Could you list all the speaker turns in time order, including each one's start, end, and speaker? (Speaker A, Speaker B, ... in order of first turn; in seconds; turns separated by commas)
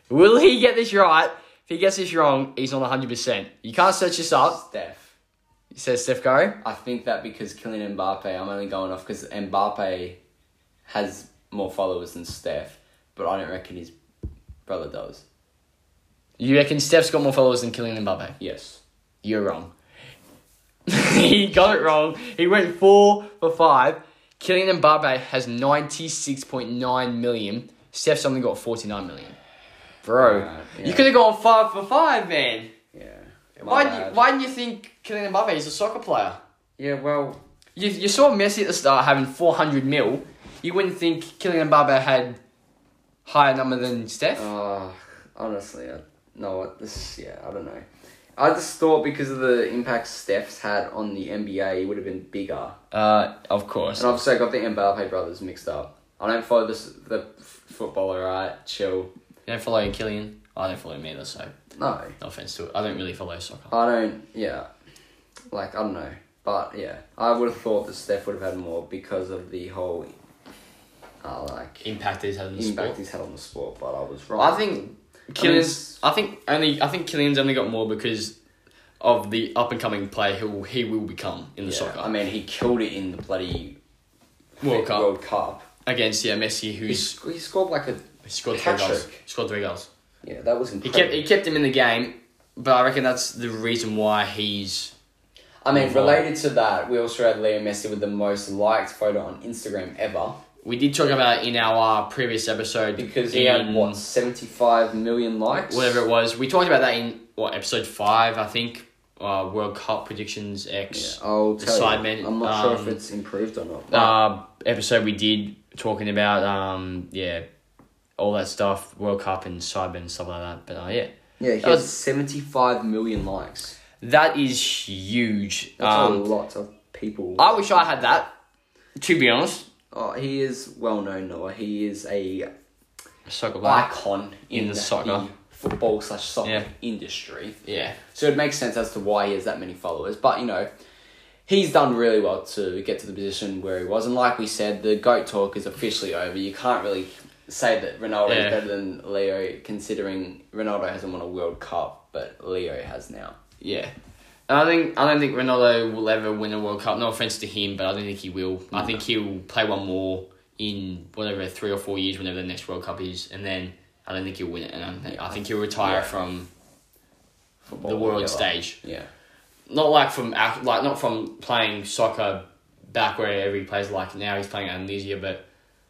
Speaker A: 0.1-4.6, Speaker B: 4.4-5.2, Speaker A: 5.7-6.6, Speaker B: 6.6-10.2, Speaker B: 10.9-13.9, Speaker B: 14.7-15.2, Speaker A: 16.4-18.4, Speaker B: 18.4-18.8, Speaker A: 19.2-19.7, Speaker A: 20.9-29.4, Speaker A: 30.0-32.7, Speaker B: 30.2-31.1, Speaker B: 32.9-34.2, Speaker A: 33.6-36.4, Speaker B: 36.8-37.4, Speaker A: 37.8-42.4, Speaker A: 43.2-44.5, Speaker B: 44.4-47.9, Speaker B: 48.4-52.8, Speaker A: 52.9-54.2, Speaker B: 54.0-59.1, Speaker A: 59.5-61.5, Speaker B: 61.8-62.1, Speaker A: 62.2-63.7, Speaker B: 63.7-64.7, Speaker B: 65.5-70.1, Speaker B: 71.2-71.9, Speaker A: 71.8-73.0, Speaker B: 72.6-74.6, Speaker A: 74.3-78.4, Speaker B: 75.4-76.0, Speaker A: 79.0-82.1, Speaker B: 81.7-83.8, Speaker B: 84.6-85.7, Speaker A: 84.6-85.1, Speaker A: 85.9-87.2, Speaker B: 86.9-89.2, Speaker A: 88.2-89.9, Speaker B: 90.2-91.2, Speaker A: 90.8-94.9, Speaker B: 95.6-100.4, Speaker A: 95.7-96.2, Speaker A: 100.6-104.0, Speaker B: 103.0-106.0, Speaker A: 105.5-113.0, Speaker B: 110.9-114.2, Speaker A: 113.9-117.5, Speaker A: 118.2-121.9, Speaker B: 121.4-123.8, Speaker A: 124.0-126.3, Speaker B: 125.8-128.2, Speaker A: 127.4-128.3, Speaker A: 129.0-129.7, Speaker B: 129.9-132.5, Speaker A: 133.3-133.9, Speaker B: 133.6-137.6, Speaker A: 134.5-135.3, Speaker A: 137.7-138.0, Speaker B: 138.1-140.7, Speaker B: 141.5-153.4, Speaker A: 148.3-148.6, Speaker A: 153.6-153.9, Speaker A: 154.5-166.5, Speaker B: 158.7-159.0, Speaker B: 165.1-166.1, Speaker B: 167.7-169.1, Speaker A: 167.8-168.8, Speaker A: 169.7-175.5